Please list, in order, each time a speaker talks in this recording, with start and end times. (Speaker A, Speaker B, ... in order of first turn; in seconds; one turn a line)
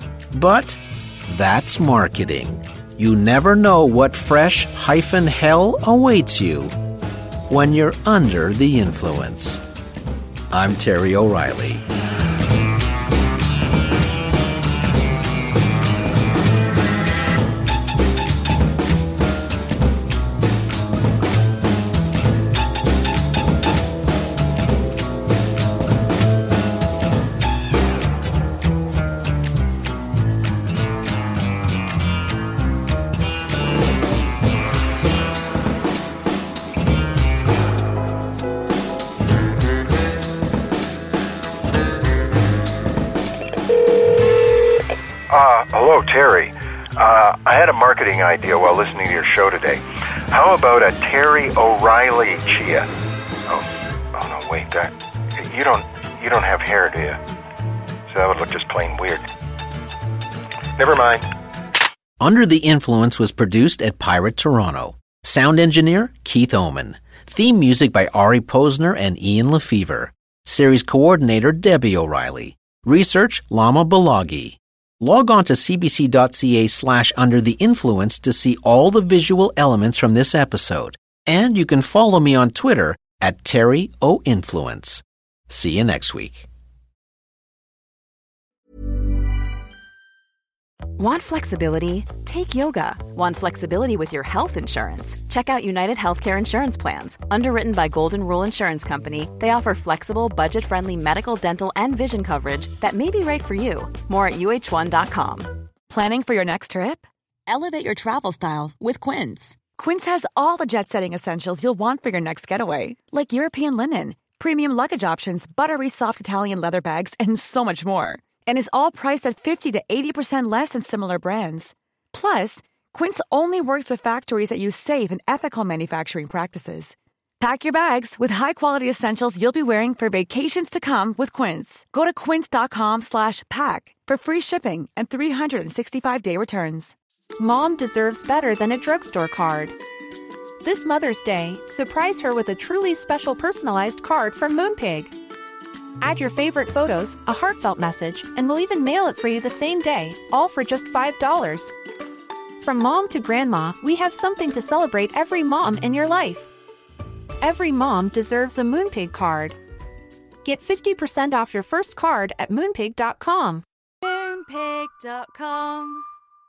Speaker A: 0.3-6.7
Speaker A: 7.5-9.6
Speaker A: 10.5-11.8
Speaker B: 45.3-52.9
Speaker B: 53.5-57.2
Speaker B: 58.1-59.2
Speaker B: 60.8-61.2
Speaker A: 62.2-86.5
Speaker C: 91.0-105.5
Speaker D: 105.9-137.0
Speaker E: 137.4-139.8
Speaker E: 140.6-145.1
Speaker E: 146.0-151.7
Speaker E: 152.6-156.5
Speaker E: 157.4-159.6
Speaker E: 160.4-163.6
Speaker F: 164.0-166.1